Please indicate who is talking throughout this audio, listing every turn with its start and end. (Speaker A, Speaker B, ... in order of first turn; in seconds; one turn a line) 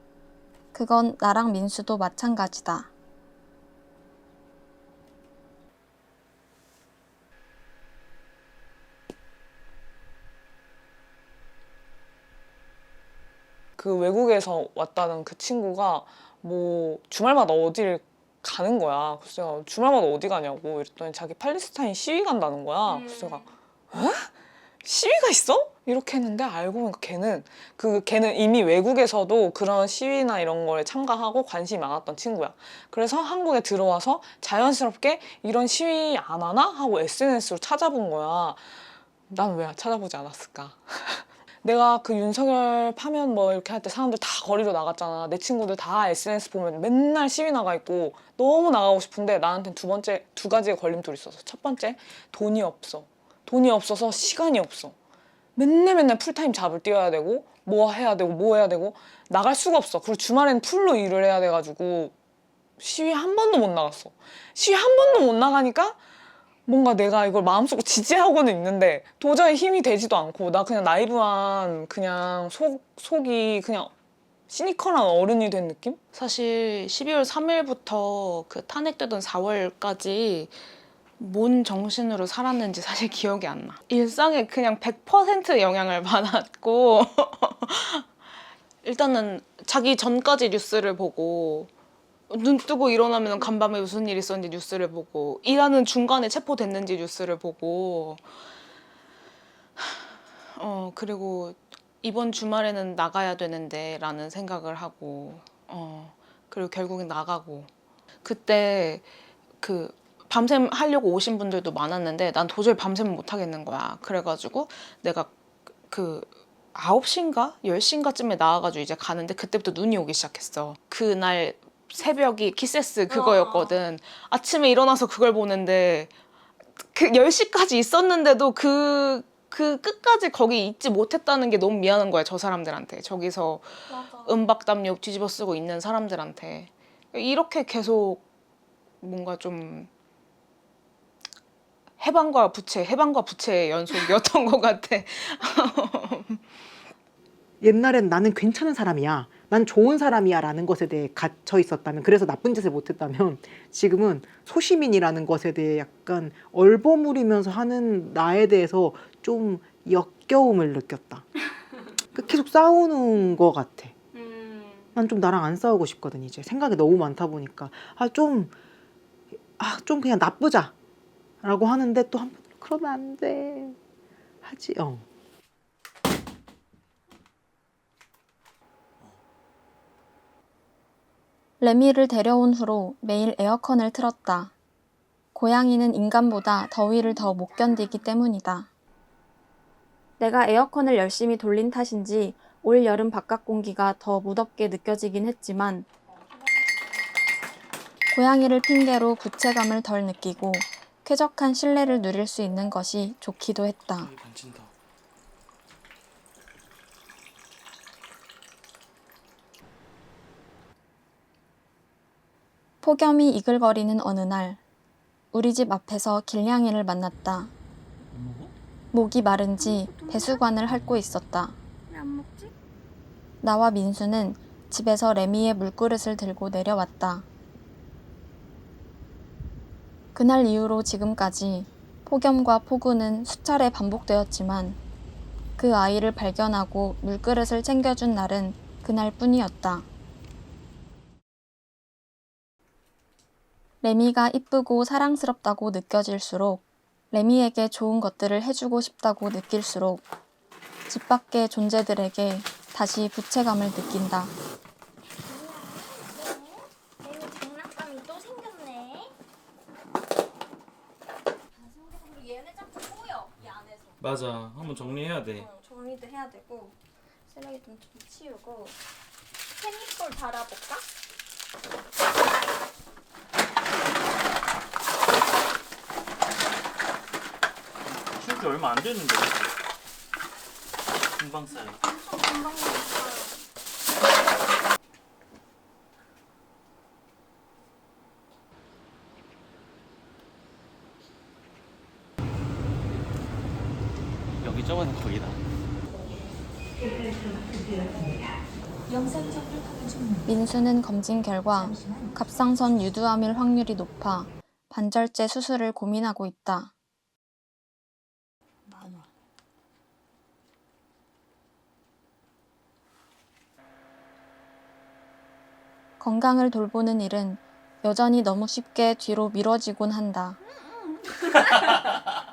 Speaker A: 0.7-2.9
Speaker B: 13.8-24.3
Speaker C: 22.9-23.5
Speaker B: 24.8-38.6
Speaker B: 39.3-55.0
Speaker B: 55.6-62.1
Speaker B: 62.8-66.0
Speaker B: 66.7-73.9
Speaker B: 74.5-76.0
Speaker D: 76.1-80.6
Speaker D: 81.2-88.1
Speaker D: 88.8-91.7
Speaker D: 92.3-98.3
Speaker D: 99.8-107.7
Speaker D: 108.2-115.3
Speaker D: 115.9-126.1
Speaker C: 123.1-123.8
Speaker D: 126.8-138.2
Speaker C: 133.9-134.4
Speaker D: 139.0-139.9
Speaker D: 142.0-146.7
Speaker E: 147.6-161.3
Speaker E: 162.1-163.9
Speaker C: 164.1-165.0
Speaker E: 165.0-168.5
Speaker E: 169.6-170.7
Speaker E: 171.4-173.8
Speaker E: 174.4-175.1
Speaker A: 181.6-184.5
Speaker A: 185.3-188.7
Speaker C: 187.0-188.0
Speaker A: 190.2-195.9
Speaker C: 196.2-196.8
Speaker A: 198.1-204.1
Speaker F: 204.0-204.7
Speaker A: 212.8-214.6
Speaker A: 215.3-217.5
Speaker F: 218.1-218.5
Speaker A: 218.9-221.6
Speaker C: 219.6-220.4
Speaker C: 221.9-222.5
Speaker A: 223.4-227.3
Speaker A: 230.2-234.8
Speaker A: 235.6-239.9
Speaker A: 243.8-250.1
Speaker A: 250.9-254.3
Speaker C: 255.2-259.1
Speaker C: 261.5-264.0
Speaker F: 264.0-265.5
Speaker C: 264.6-268.8
Speaker C: 269.5-270.9
Speaker F: 278.1-279.6
Speaker F: 281.2-281.8
Speaker C: 281.5-283.4
Speaker F: 294.4-295.4
Speaker A: 300.2-306.7
Speaker C: 308.7-309.0
Speaker A: 316.0-320.4
Speaker C: 320.5-321.7
Speaker F: 321.3-322.1